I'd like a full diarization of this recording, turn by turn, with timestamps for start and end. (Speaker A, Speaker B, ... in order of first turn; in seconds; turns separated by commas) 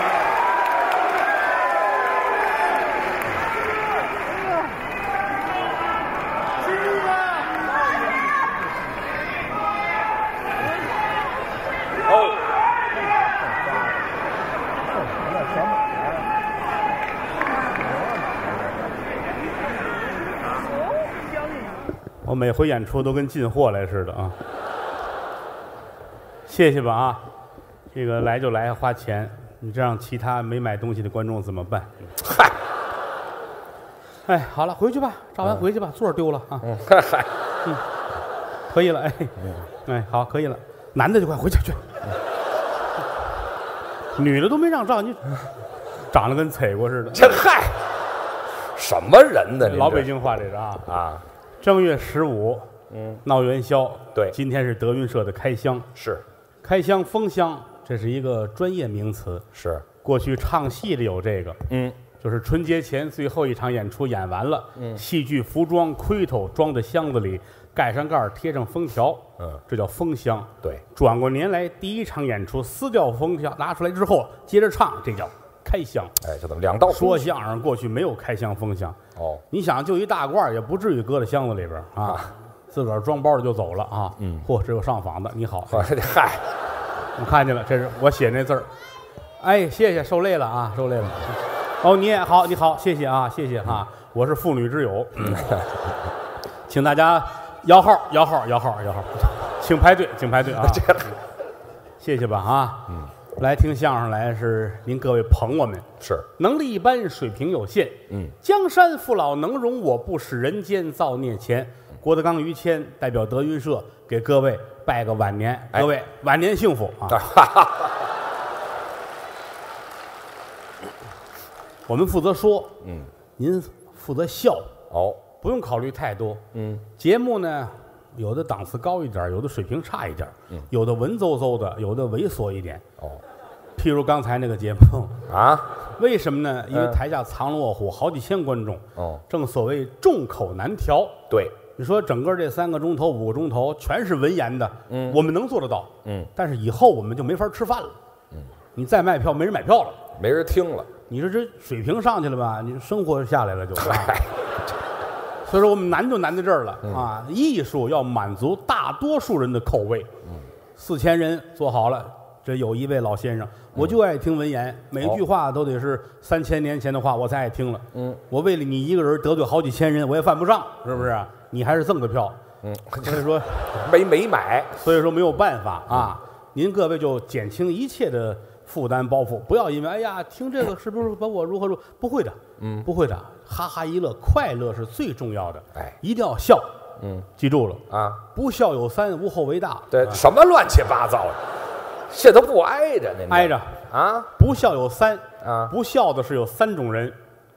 Speaker A: 22.2-24.4, Speaker A: 26.5-27.2, Speaker A: 27.9-32.1, Speaker B: 32.2-32.5, Speaker A: 34.3-36.7, Speaker B: 36.6-37.3, Speaker A: 38.7-41.9, Speaker A: 44.1-45.3, Speaker A: 46.1-47.4, Speaker B: 47.1-47.9, Speaker B: 48.7-50.1, Speaker A: 49.6-50.9, Speaker B: 50.9-51.2, Speaker A: 51.6-52.7, Speaker B: 52.9-53.2, Speaker A: 53.2-55.9, Speaker B: 56.0-56.2, Speaker A: 56.6-59.5, Speaker B: 59.5-59.9, Speaker A: 60.0-61.6, Speaker B: 61.7-62.0, Speaker A: 62.2-76.1, Speaker B: 76.2-77.3, Speaker A: 76.9-79.0, Speaker B: 79.2-79.4, Speaker A: 79.5-85.9, Speaker B: 82.0-82.3, Speaker B: 84.2-84.5, Speaker B: 85.7-86.5, Speaker A: 87.2-88.7, Speaker A: 89.4-95.5, Speaker B: 95.2-95.7, Speaker A: 96.7-101.1, Speaker B: 100.6-101.1, Speaker A: 102.0-117.2, Speaker B: 106.0-106.3, Speaker B: 117.1-118.0, Speaker A: 121.9-122.8, Speaker B: 122.8-123.1, Speaker A: 123.4-124.7, Speaker B: 124.9-125.2, Speaker A: 125.4-126.4, Speaker B: 126.5-126.8, Speaker A: 127.0-132.8, Speaker A: 133.8-135.2, Speaker B: 135.3-135.7, Speaker A: 136.0-141.2, Speaker B: 136.7-137.0, Speaker B: 139.0-139.2, Speaker B: 141.3-141.6, Speaker A: 141.8-148.0, Speaker B: 144.9-145.2, Speaker A: 148.8-150.0, Speaker B: 150.2-150.9, Speaker A: 151.1-154.2, Speaker B: 153.8-154.6, Speaker A: 155.4-160.1, Speaker A: 160.8-172.4, Speaker B: 172.6-174.8, Speaker A: 173.0-173.8, Speaker A: 174.8-186.7, Speaker B: 182.6-182.9, Speaker B: 187.0-187.3, Speaker A: 187.4-187.8, Speaker B: 187.9-188.2, Speaker A: 188.3-190.2, Speaker B: 189.9-191.4, Speaker B: 192.1-194.3, Speaker A: 193.3-193.8, Speaker A: 194.3-197.2, Speaker B: 195.4-195.7